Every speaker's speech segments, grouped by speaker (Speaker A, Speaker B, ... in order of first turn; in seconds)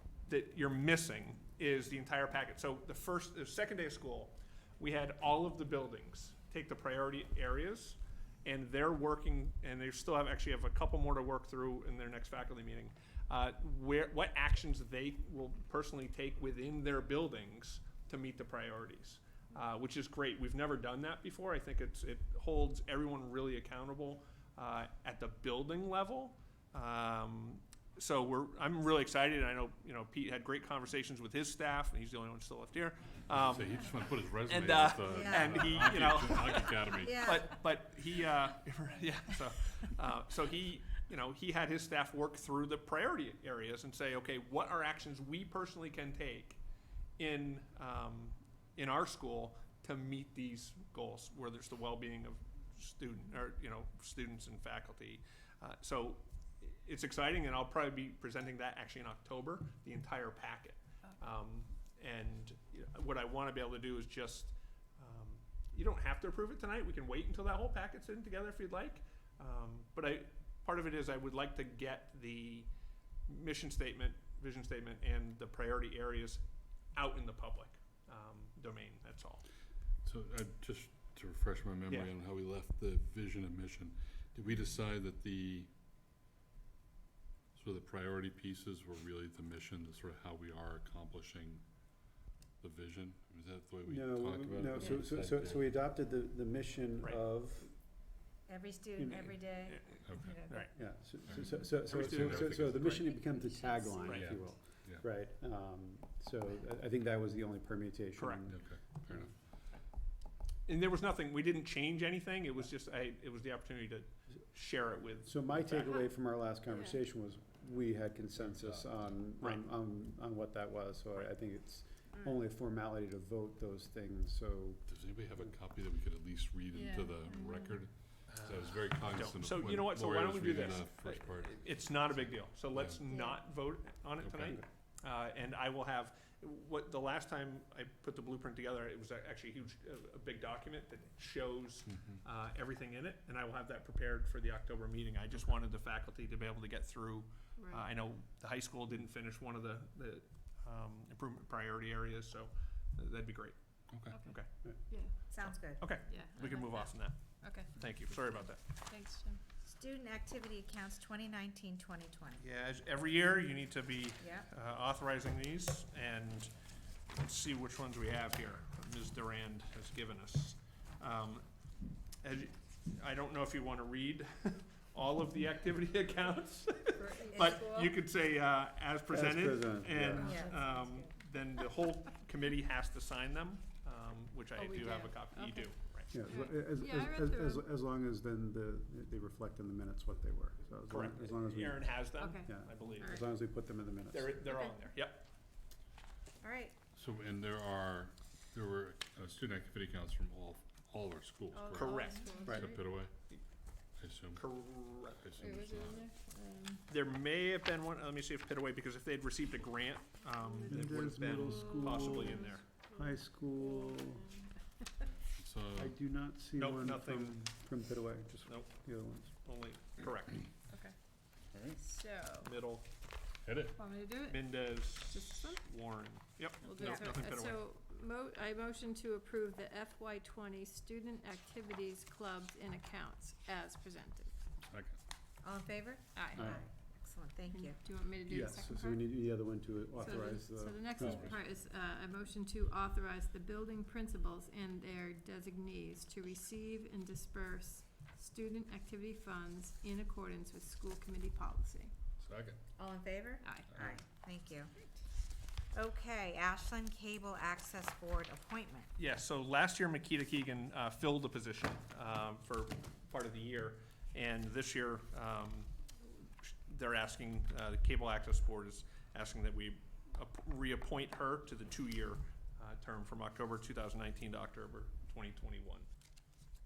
Speaker A: 0.3-33.8, 34.5-46.6, 47.2-72.7, 73.3-76.4, 76.9-79.4, 99.7-101.0, 101.8-103.1, 104.0-104.3, 108.2-108.5, 110.7-116.1, 128.3-154.5, 155.3-158.7, 162.4-166.5, 167.1-171.4, 172.2-186.1, 190.9-193.3, 194.1-195.3, 201.7-202.7, 204.3-205.2, 206.9-212.6, 216.6-217.4, 218.5-220.5, 222.4-222.9, 224.2-227.6, 259.0-265.8, 266.4-275.9
Speaker B: 33.3-37.3, 80.0-85.7, 87.5-91.6, 92.6-95.8, 100.0-100.4, 101.3-103.0, 104.1-105.0, 108.5-109.3, 118.4-119.1, 124.9-133.0, 134.2-134.6, 141.9-142.2, 153.9-154.2, 197.0-203.1, 204.0-206.1, 215.3-215.9, 221.5-221.8, 223.4-223.8, 234.7-235.0, 241.0-241.3, 252.2-252.6
Speaker C: 35.1-35.7, 37.0-37.5, 98.5-100.7, 103.2-104.2, 155.3-155.9, 159.7-162.4, 164.2-164.5, 177.3-177.6, 180.1-181.1, 196.4-196.8, 226.8-227.1, 235.4-237.8, 252.8-254.7, 255.7-258.9
Speaker D: 93.9-97.8, 99.0-99.4, 100.7-109.3, 115.2-124.8, 179.1-180.4, 186.1-194.6, 202.4-202.7, 210.7-214.4, 215.8-219.5, 236.3-236.6, 238.2-241.4
Speaker E: 116.7-117.0, 126.7-127.8, 133.1-133.4, 147.6-147.9, 156.1-159.4, 177.0-177.9, 180.1-181.1, 184.5-187.7, 192.2-193.2, 194.5-194.8, 201.5-202.8, 205.4-206.9, 210.4-214.5, 220.7-220.9, 221.7-222.5, 223.8-225.6, 226.6-234.3, 236.2-236.5, 237.5-239.1, 240.0-251.9, 253.4-253.7